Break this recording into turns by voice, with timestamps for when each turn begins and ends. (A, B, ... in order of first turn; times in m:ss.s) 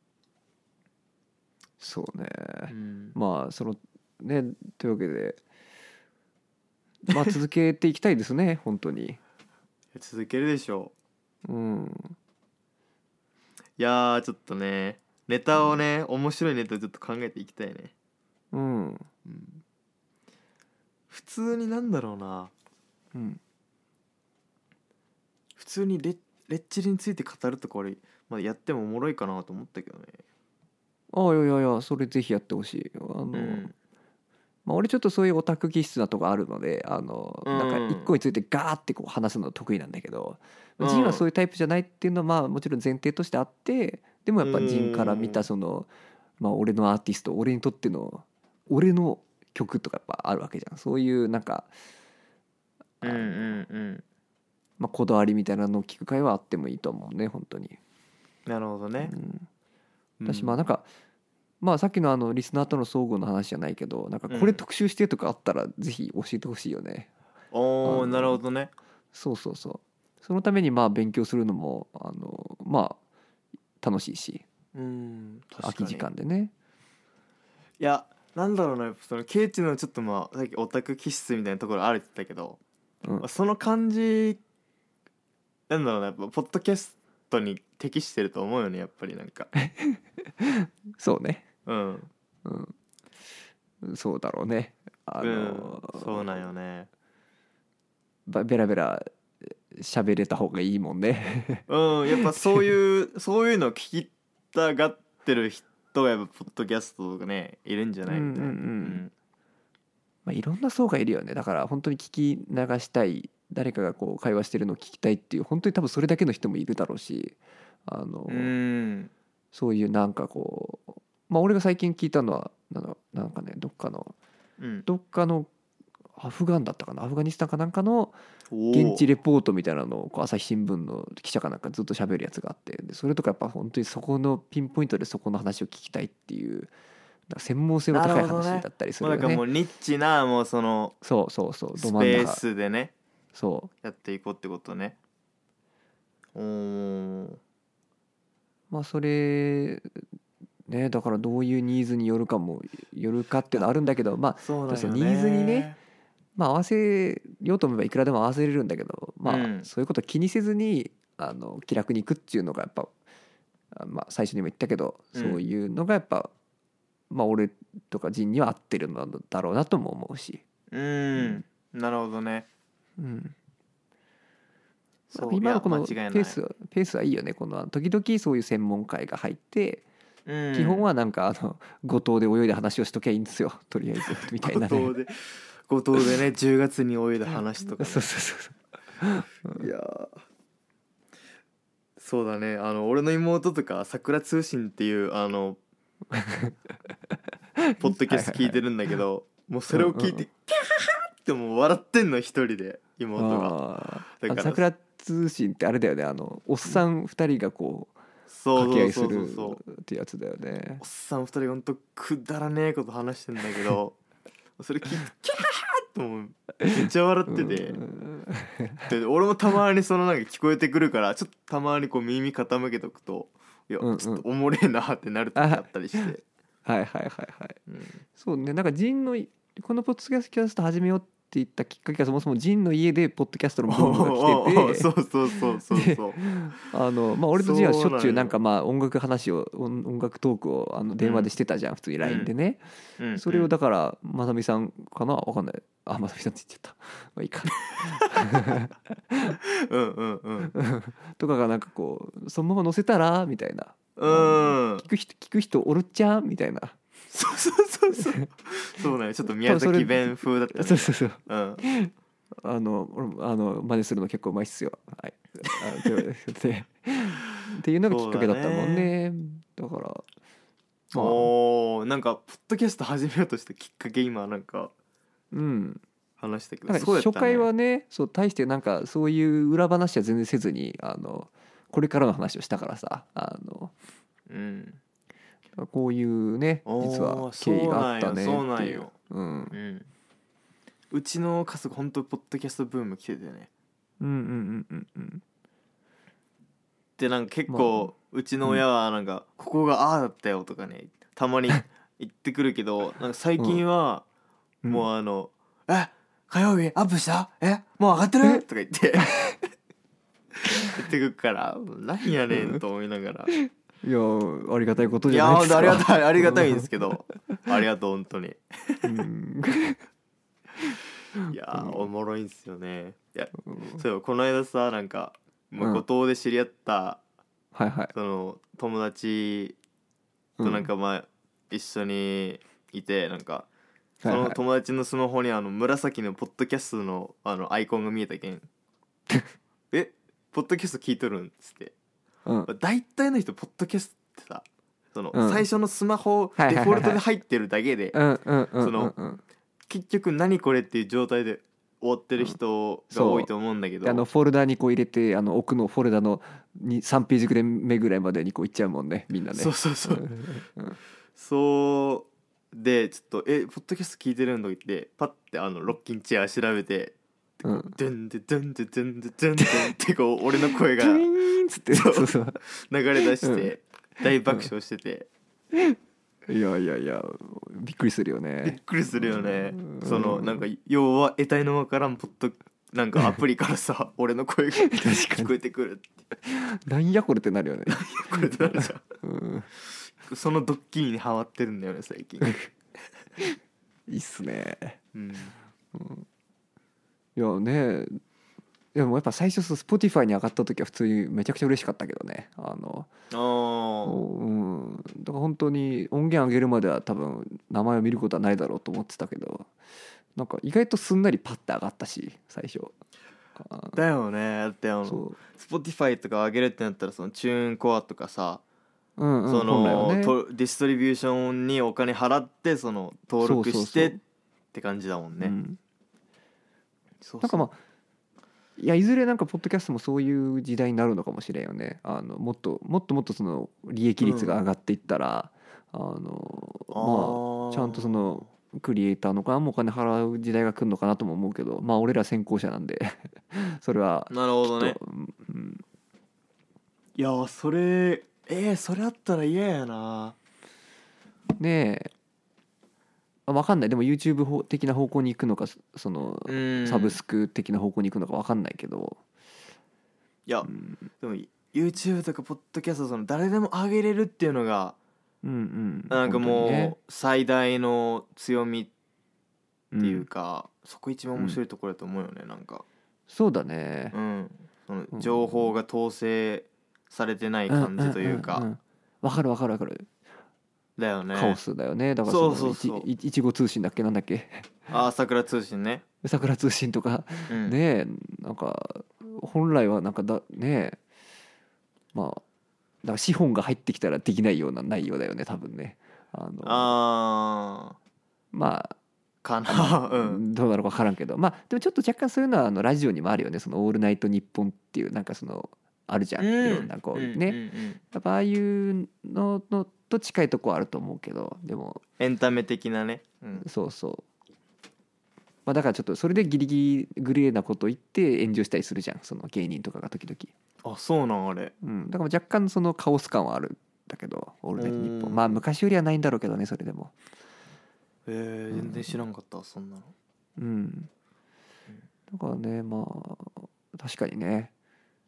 0:01.8-0:05.4 A
0:02.7-0:03.1 B
0:07.1-0:09.2 A
0:09.9-0:10.9 B
0:11.4-0:12.2 A
0:13.8-0:17.9 B
0:18.5-0:19.1 A
0:19.2-0:19.6 B
0:21.1-0:22.5 B
0:23.1-0:23.4 A
0:25.6-0:30.2 B
0:31.1-0:33.7 A
0:33.3-0:33.7 B
0:34.6-0:51.7 A
0:37.4-0:38.1 B
0:40.8-0:41.2 B
0:44.4-0:45.4 B
0:53.0-0:53.6 A
0:53.0-0:54.0 B
0:54.8-0:57.8 A
0:58.4-0:59.1 B
0:59.0-0:59.5 A
1:00.2-1:00.6 B
1:00.2-1:00.9 A
1:01.6-1:07.1 A
1:04.3-1:04.6 B
1:07.5-1:08.7 B
1:07.8-1:08.4 A
1:09.1-1:13.0 A
1:13.8-1:14.4 A
1:14.7-1:16.0 B
1:15.6-1:16.5 A
1:17.8-1:22.6 B
1:23.2-1:24.4 B
1:25.7-1:29.5 B
1:29.5-1:31.4 A
1:31.6-1:32.1 B
1:32.4-1:32.7 A
1:33.8-1:36.4 A
1:35.2-1:36.9 B
1:38.3-1:42.7 A
1:41.7-1:49.1 B
1:48.1-1:49.0 A
1:50.2-1:58.5 A
1:58.3-1:59.1 B
1:59.5-2:04.1 A
2:04.6-2:04.9 B
2:04.9-2:05.5 A
2:06.2-2:08.2 A
2:08.5-2:09.0 B
2:08.7-2:16.7 A
2:17.3-2:19.4 A
2:17.9-2:21.0 B
2:21.0-2:22.4 A
2:21.8-2:22.9 B
2:23.3-2:23.7 A
2:23.8-2:25.0 B
2:26.3-2:27.4 B
2:28.7-2:30.0 A
2:30.7-2:35.7 A
2:34.4-2:35.8 B
2:36.4-2:42.9 A
2:39.2-2:39.7 B
2:43.7-2:46.3 A
2:45.1-2:45.4 B
2:47.1-2:50.4 A
2:50.7-2:52.5 B
2:51.2-2:51.4 A
2:53.0-2:53.3 A
2:55.1-2:56.4 B
2:55.1-2:59.8 A
3:00.2-3:00.9 B
3:00.5-3:04.9 A
3:04.1-3:08.1 B
3:07.8-3:09.7 A
3:09.5-3:10.2 B
3:12.0-3:15.6 B
3:16.1-3:16.5 A
3:17.6-3:18.6 A
3:17.8-3:24.6 B
3:19.7-3:20.2 A
3:23.2-3:28.0 A
3:28.3-3:29.6 B
3:28.5-3:30.8 A
3:30.8-3:34.0 B
3:34.6-3:37.8 B
3:36.6-3:38.9 A
3:38.8-3:46.2 B
3:43.8-3:44.2 A
3:45.4-3:46.1 A
3:46.6-3:47.6 A
3:47.7-3:48.0 B
3:48.2-3:54.9 A
3:53.7-3:56.7 B
3:55.7-4:02.6 A
3:57.3-3:58.3 B
4:01.0-4:01.3 B
4:02.0-4:02.3 B
4:03.0-4:03.5 B
4:03.2-4:09.4 A
4:07.8-4:08.6 B
4:09.4-4:10.5 B
4:10.5-4:16.8 A
4:14.0-4:14.9 B
4:17.1-4:21.6 B
4:18.0-4:18.2 A
4:19.3-4:21.9 A
4:22.4-4:30.0 A
4:27.9-4:28.9 B
4:30.9-4:34.7 B
4:30.9-4:31.3 A
4:35.3-4:35.8 A
4:36.2-4:37.5 B
4:36.7-4:43.7 A
4:44.3-4:44.8 B
4:45.6-4:49.5 A
4:46.6-4:48.9 B
4:49.5-4:49.9 B
4:50.9-4:53.5 B
4:54.0-4:55.2 A
4:57.0-5:04.0 B
4:57.5-4:57.9 A
5:04.6-5:09.3 B
5:09.0-5:09.3 A
5:10.5-5:13.3 B
5:12.3-5:12.6 A
5:13.3-5:16.7 A
5:15.1-5:18.9 B
5:18.8-5:19.8 A
5:20.6-5:21.8 A
5:21.3-5:27.0 B
5:23.5-5:23.8 A
5:25.6-5:25.8 A
5:27.5-5:27.9 A
5:27.9-5:29.6 B
5:30.4-5:30.7 A
5:30.4-5:33.5 B
5:34.0-5:34.4 A
5:34.0-5:38.5 B
5:39.7-5:41.7 B
5:42.4-5:48.0 B
5:45.1-5:45.4 A
5:46.4-5:47.0 A
5:47.9-5:49.2 A
5:48.6-5:48.9 B
5:49.7-5:54.0 B
5:52.9-5:53.3 A
5:53.8-6:00.8 A
5:59.3-6:00.1 B
6:01.1-6:11.1 B
6:07.4-6:07.7 A
6:09.4-6:09.7 A
6:10.5-6:12.4 A
6:11.7-6:15.1 B
6:13.2-6:13.5 A
6:15.5-6:20.4 A
6:18.4-6:26.0 B
6:24.6-6:25.3 A
6:26.2-6:29.5 A
6:27.7-6:28.8 B
6:30.0-6:32.4 B
6:33.2-6:34.8 A
6:34.9-6:35.3 B
6:35.7-6:36.0 A
6:37.2-6:38.0 A
6:38.7-6:42.9 A
6:43.1-6:44.0 B
6:43.8-6:49.5 A
6:50.2-6:52.7 A
6:53.4-6:53.8 A
6:53.7-6:58.4 B
6:54.9-6:55.2 A
6:59.0-7:00.2 A
6:59.3-7:04.0 B
7:03.2-7:04.0 A
7:04.5-7:05.3 B
7:05.2-7:05.6 A
7:07.0-7:07.5 B
7:07.2-7:07.6 A
7:08.6-7:25.6 A
7:14.0-7:14.3 B
7:16.7-7:18.2 B
7:24.1-7:24.8 B
7:27.0-7:30.2 B
7:31.4-7:31.9 A
7:33.3-7:39.0 A
7:36.3-7:37.0 B
7:40.3-7:44.8 B
7:40.4-7:40.8 A
7:45.2-7:46.7 A
7:45.9-7:48.7 B
7:49.7-7:50.0 A
7:49.8-7:52.6 B
7:53.1-7:53.9 A
7:53.9-7:58.5 B
7:54.9-7:55.4 A
7:57.5-7:59.9 A
8:00.8-8:01.4 B
8:01.1-8:04.6 A
8:02.0-8:02.9 B
8:04.7-8:05.8 B
8:06.0-8:10.8 A
8:07.3-8:07.6 B
8:11.9-8:12.2 A
8:12.8-8:16.7 A
8:16.4-8:17.8 B
8:18.3-8:18.8 A
8:19.2-8:20.2 B
8:19.5-8:27.4 A
8:26.2-8:27.8 B
8:27.9-8:31.8 A
8:32.0-8:33.4 B
8:33.4-8:34.0 A
8:35.4-8:40.3 A
8:40.6-8:41.5 B
8:41.6-8:46.9 A
8:44.6-8:45.4 B
8:48.1-8:49.9 B
8:48.5-8:49.0 A
8:50.4-8:50.9 A
8:52.1-8:54.5 A